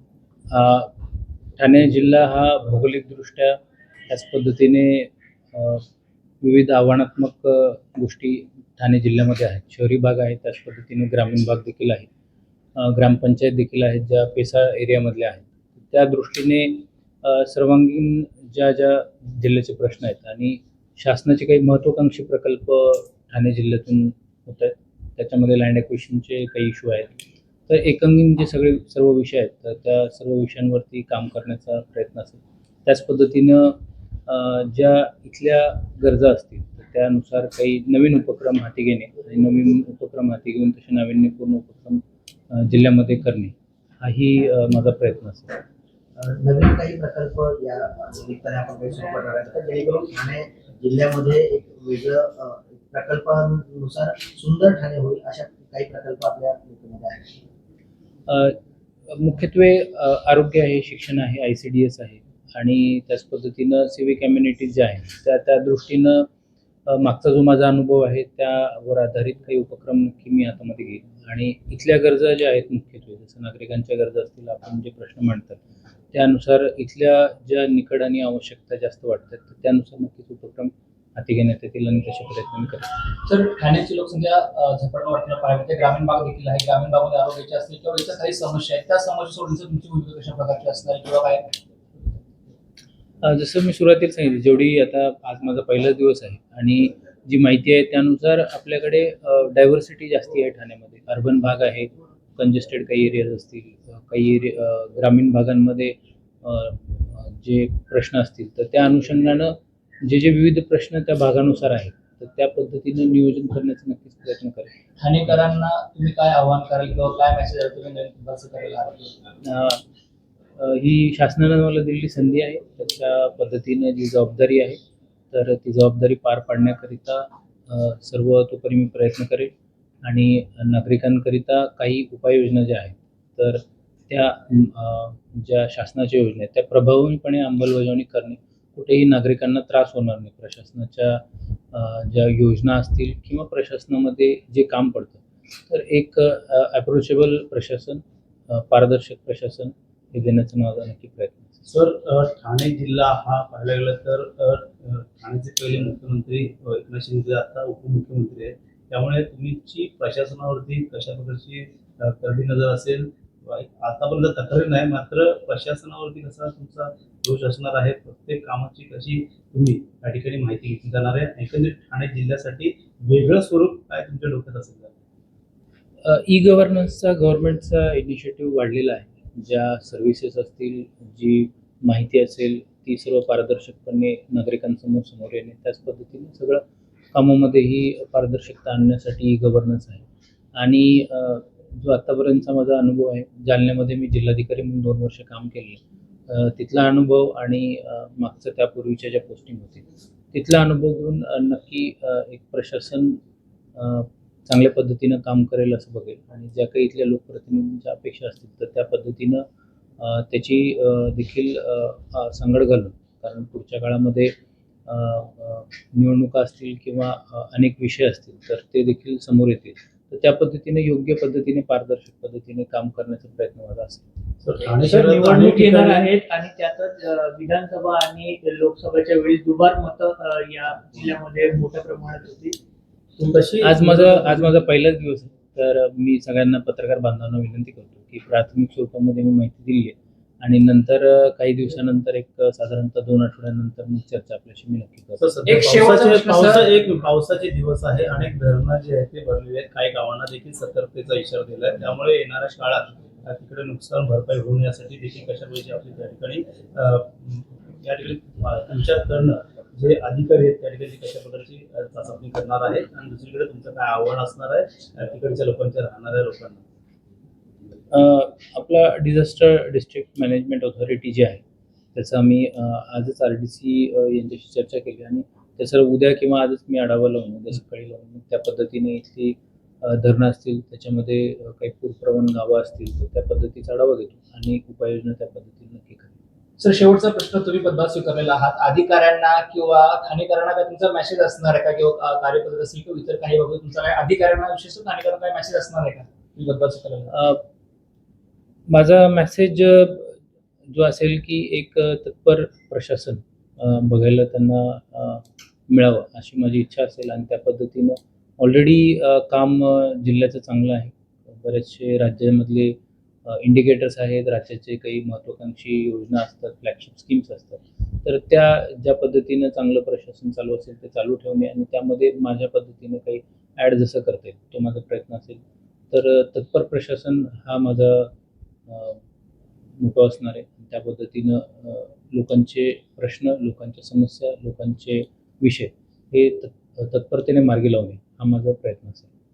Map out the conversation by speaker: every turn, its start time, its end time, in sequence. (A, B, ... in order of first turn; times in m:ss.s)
0:00.5-0:00.9 A
0:01.6-0:05.8 A
0:06.4-0:12.1 A
0:12.8-0:27.1 A
0:27.7-0:45.6 A
0:46.2-0:57.4 B
0:58.3-0:58.6 A
0:59.1-1:06.3 A
1:06.9-1:15.6 A
1:16.1-1:23.0 A
1:23.1-1:31.5 C
1:33.2-1:54.7 A
1:55.0-1:59.1 C
1:59.4-1:59.8 A
2:00.6-2:04.8 A
2:05.3-2:09.5 A
2:10.0-2:21.2 A
2:21.7-2:31.6 A
2:31.7-2:54.9 D
2:56.0-3:06.6 A
3:07.1-3:10.0 A
3:10.6-3:23.2 A
3:23.8-3:29.4 A
3:30.0-3:34.3 A
3:34.9-3:44.0 A
3:44.4-3:46.1 D
3:44.8-3:52.6 E
3:53.2-3:54.5 D
3:53.6-4:05.3 A
4:05.2-4:26.6 D
4:05.4-4:06.7 C
4:27.9-4:31.4 A
4:31.9-4:46.1 A
4:46.6-4:57.1 C
4:57.1-4:57.4 A
4:58.7-5:28.1 A
5:28.7-5:29.0 A
5:29.8-5:39.1 A